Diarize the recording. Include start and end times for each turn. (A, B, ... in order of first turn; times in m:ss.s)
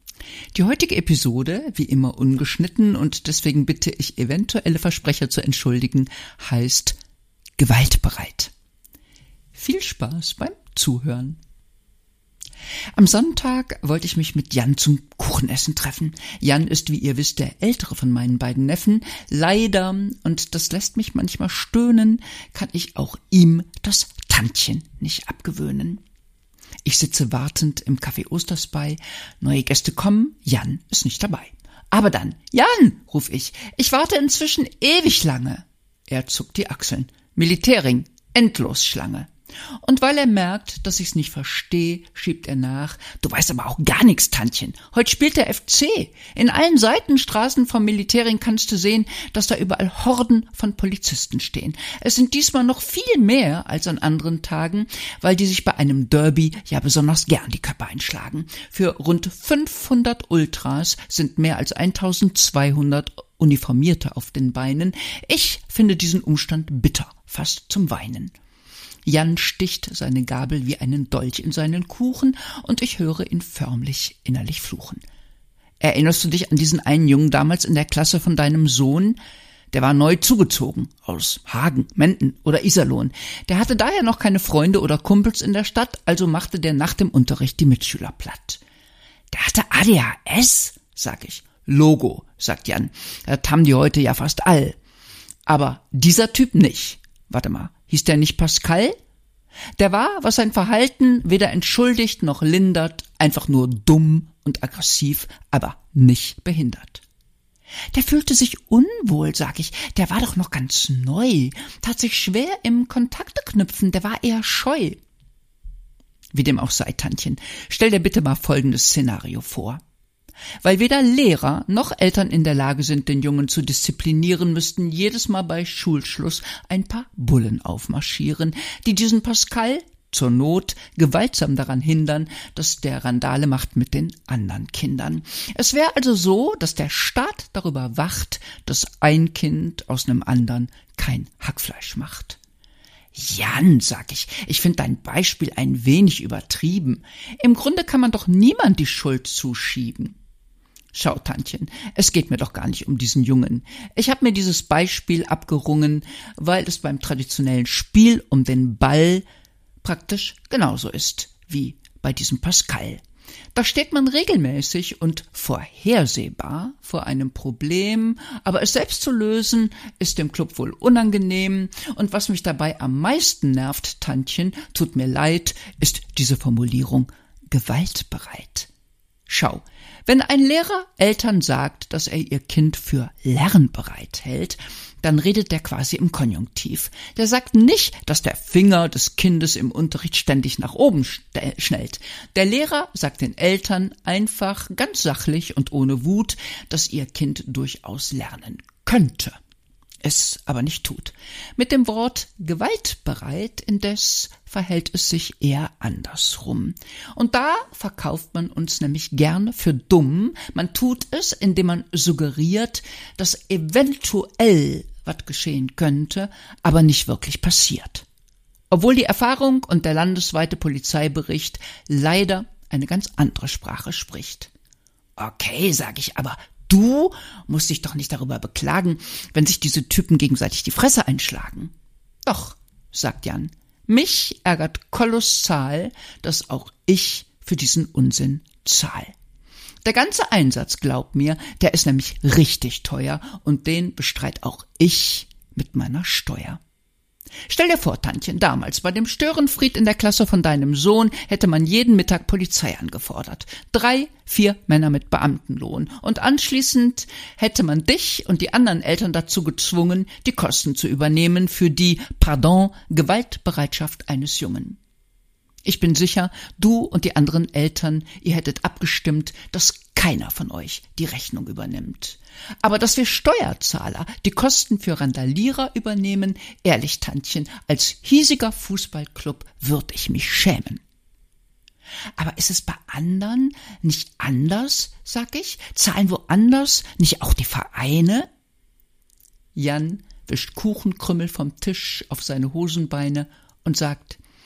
0:00.5-0:07.0 A
0:07.6-0:08.5 A
0:09.5-0:11.4 A
0:12.9-0:26.0 A
0:26.8-1:08.3 A
1:09.0-1:15.0 A
1:15.8-1:19.2 A
1:19.7-1:28.6 A
1:29.3-1:34.8 A
1:35.4-1:39.0 A
1:39.8-1:47.0 A
1:47.9-1:55.0 A
1:56.3-1:59.8 A
2:00.6-2:22.4 A
2:23.1-2:30.2 A
2:30.9-2:39.2 A
2:39.8-2:43.0 A
2:43.5-2:58.7 A
2:59.3-3:19.4 A
3:20.0-3:38.0 A
3:38.7-3:44.5 A
3:45.2-3:51.7 A
3:52.2-3:59.1 A
3:59.8-4:06.6 A
4:07.5-4:24.8 A
4:25.6-4:40.8 A
4:42.2-4:48.3 A
4:49.5-4:54.2 A